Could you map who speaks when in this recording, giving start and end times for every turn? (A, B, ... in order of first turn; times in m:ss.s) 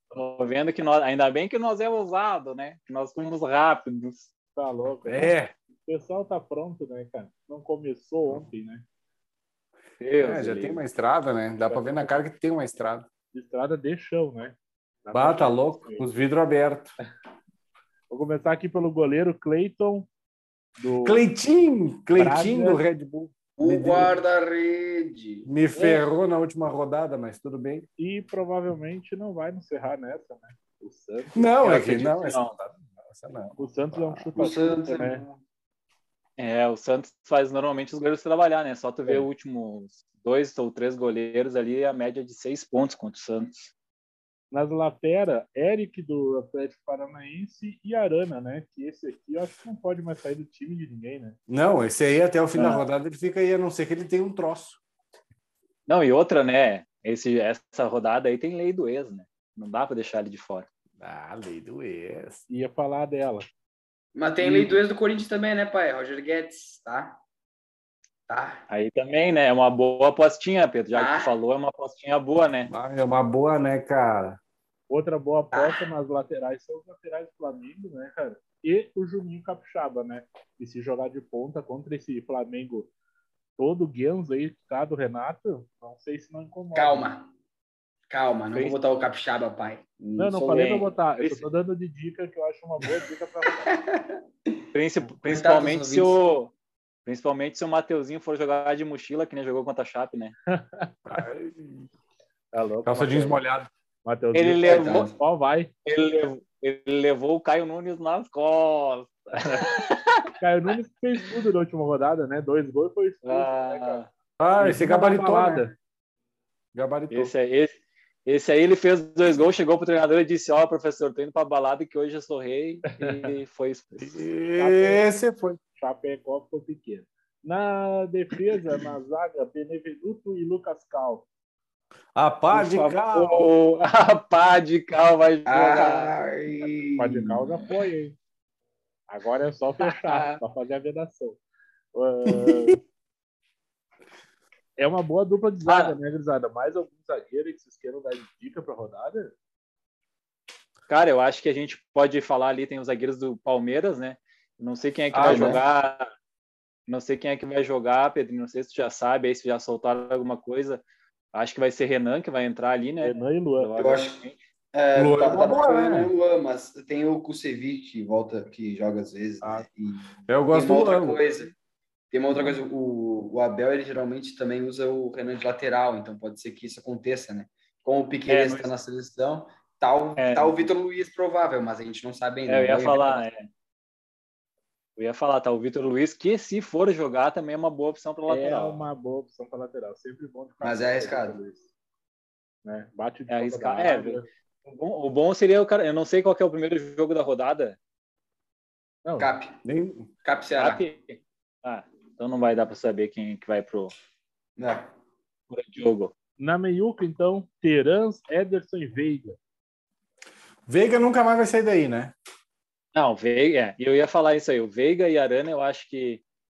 0:00.1-0:04.3 A
0:04.5-0:08.8 B
0:05.0-0:05.5 C
0:10.0-0:10.8 A
0:10.2-0:13.1 C
0:11.7-0:12.2 B
0:13.3-0:16.0 B
0:15.1-0:16.9 C
0:18.1-0:20.1 B
0:20.8-0:21.2 B
0:21.0-0:24.2 C
0:22.1-0:22.8 B
0:23.6-0:25.5 D
0:25.4-0:27.8 C
0:25.7-0:26.0 B
0:28.0-0:31.5 B
0:31.3-0:34.3 C
0:31.6-0:32.5 A
0:33.6-0:35.2 B
0:34.3-0:35.4 D
0:36.4-0:43.7 A
0:44.5-0:51.4 B
0:51.5-0:54.8 C
0:52.5-0:52.8 A
0:55.9-1:00.7 A
1:01.0-1:02.4 C
1:02.5-1:03.5 B
1:04.1-1:07.2 D
1:04.4-1:04.7 B
1:08.3-1:08.6 D
1:08.7-1:12.7 A
1:10.9-1:11.3 D
1:12.7-1:14.4 C
1:14.9-1:22.9 B
1:15.5-1:15.8 D
1:23.6-1:27.1 B
1:26.7-1:27.3 D
1:28.1-1:30.8 D
1:30.2-1:33.7 B
1:30.5-1:31.4 A
1:33.6-1:34.2 D
1:34.7-1:36.5 A
1:35.2-1:36.2 D
1:37.0-1:40.3 A
1:40.5-1:40.9 B
1:41.0-1:41.9 C
1:42.5-1:43.4 B
1:42.8-1:43.7 C
1:44.0-1:45.7 B
1:44.3-1:45.1 A
1:44.6-1:45.2 D
1:45.8-1:50.2 A
1:49.4-1:49.6 B
1:50.4-1:54.0 B
1:53.2-1:54.1 A
1:54.4-1:55.7 C
1:54.6-1:55.7 B
1:56.7-1:57.3 C
1:57.1-2:04.2 A
2:03.0-2:03.3 B
2:04.0-2:05.6 C
2:04.6-2:05.1 B
2:05.8-2:11.3 B
2:12.1-2:13.5 C
2:12.5-2:16.1 A
2:15.5-2:17.5 D
2:17.0-2:18.2 B
2:19.1-2:21.4 B
2:19.8-2:20.4 A
2:21.9-2:22.8 B
2:24.8-2:29.3 B
2:25.6-2:25.9 A
2:30.9-2:36.1 A
2:35.1-2:35.6 C
2:35.2-2:35.6 D
2:36.9-2:40.8 A
2:41.3-2:44.4 A
2:43.0-2:43.8 B
2:43.8-2:51.5 D
2:44.9-2:46.1 C
2:50.3-2:51.2 C
2:52.1-3:03.2 D
2:58.3-2:58.7 A
3:00.2-3:00.7 A
3:02.5-3:03.5 A
3:05.0-3:08.8 A
3:08.3-3:11.7 B
3:10.6-3:11.4 D
3:12.6-3:14.2 B
3:13.3-3:17.8 A
3:19.0-3:19.3 B
3:19.2-3:19.6 D
3:19.6-3:20.1 C
3:20.2-3:20.8 D
3:20.5-3:23.9 A
3:24.6-3:24.9 D
3:25.5-3:26.1 A
3:26.4-3:29.4 B
3:30.7-3:32.1 C
3:32.9-3:36.2 A